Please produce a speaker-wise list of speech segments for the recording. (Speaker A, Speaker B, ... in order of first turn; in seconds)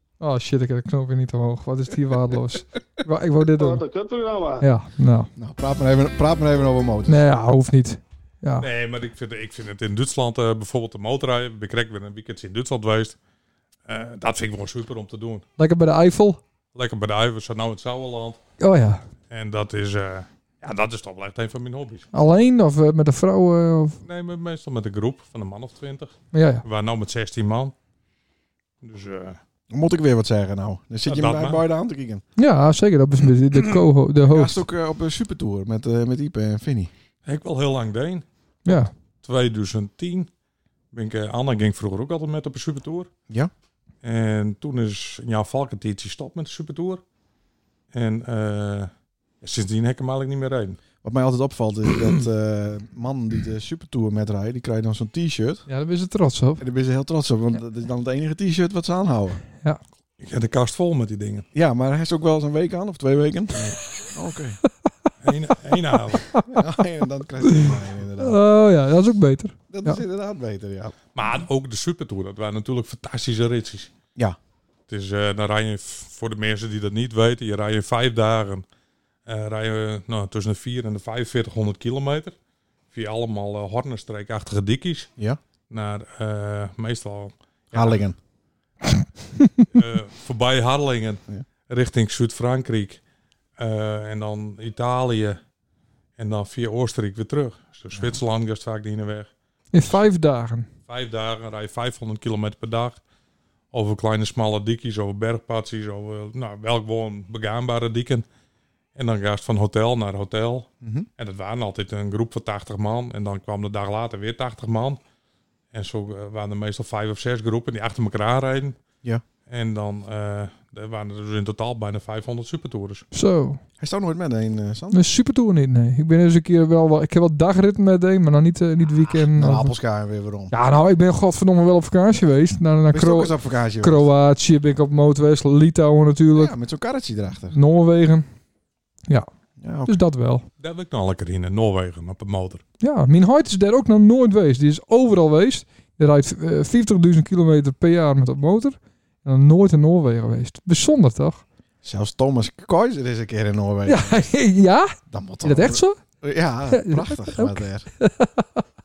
Speaker A: 0.2-3.9, 4.6-5.3, 7.1-8.7, 15.6-16.4, 18.6-19.0, 22.1-24.0, 26.3-26.6, 32.4-34.6, 38.6-38.9, 55.7-56.6, 67.5-70.0, 99.7-100.7, 123.1-123.6, 124.9-129.7, 130.5-136.5, 137.5-138.3, 139.9-140.4, 142.8-151.4, 153.8-156.0, 156.7-158.6
Speaker B: 5.3-7.2, 29.7-32.2, 34.2-36.9, 51.0-55.6, 56.6-59.4, 61.5-64.6, 66.5-68.4, 69.7-70.9, 87.7-88.2, 123.8-125.0, 129.1-130.5, 132.9-134.1, 136.3-137.6, 139.6-140.0, 151.8-154.2, 155.1-157.9
Speaker C: 8.6-13.2, 13.8-15.4, 16.7-18.4, 19.3-22.1, 24.0-27.7, 28.8-29.4, 31.1-31.6, 37.2-38.2, 39.2-40.3, 40.9-43.1, 44.0-47.0, 47.9-50.8, 60.2-61.5, 65.2-66.3, 71.1-73.9, 74.9-78.7, 79.2-82.3, 82.9-85.1, 85.7-88.0, 89.7-93.0, 93.6-95.4, 96.2-99.3, 100.9-103.0, 103.7-108.2, 108.9-115.0, 115.7-118.8, 119.5-123.0, 140.6-142.6